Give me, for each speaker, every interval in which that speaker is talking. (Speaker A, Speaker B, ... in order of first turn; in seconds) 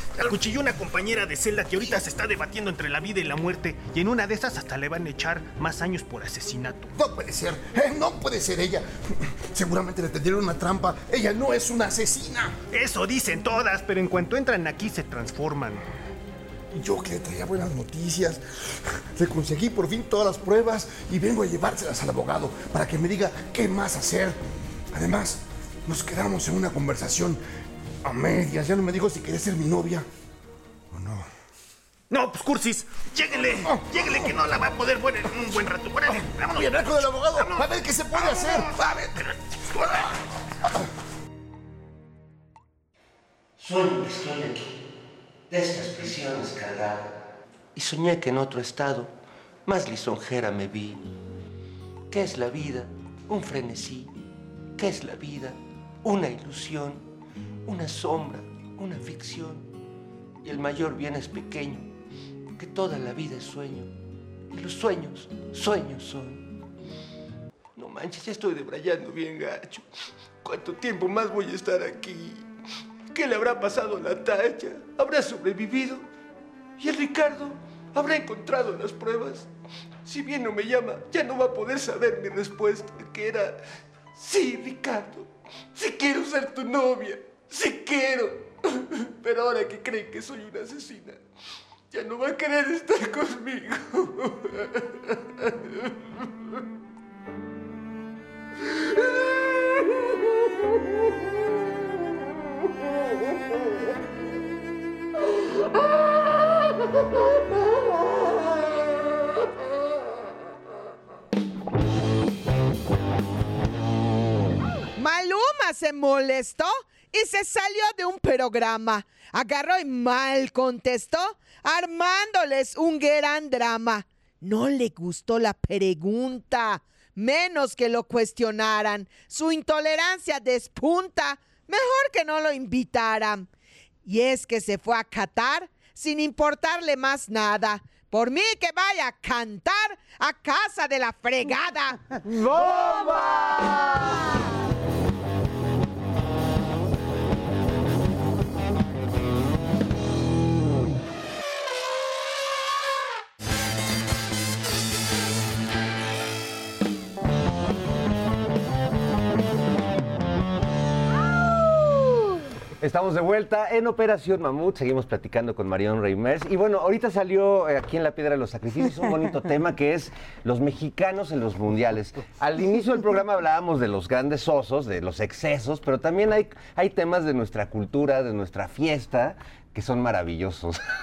Speaker A: 0.2-6.9, 12.7-15.8, 32.1-38.7
Speaker B: 6.9-12.6, 16.7-24.4, 24.9-27.4, 28.0-30.1, 30.9-31.3, 36.5-39.1
Speaker C: 43.6-44.7, 45.5-47.1, 47.7-49.1, 49.6-51.0, 52.1-54.1, 54.8-57.0, 57.6-59.7, 60.4-61.9, 62.6-63.9, 64.5-66.4, 67.8-69.8, 70.4-72.4, 73.1-76.0, 76.8-79.5, 80.0-83.6, 84.1-91.2, 91.9-94.8
Speaker D: 115.0-133.5, 134.0-142.0
Speaker E: 142.3-144.0, 162.8-180.8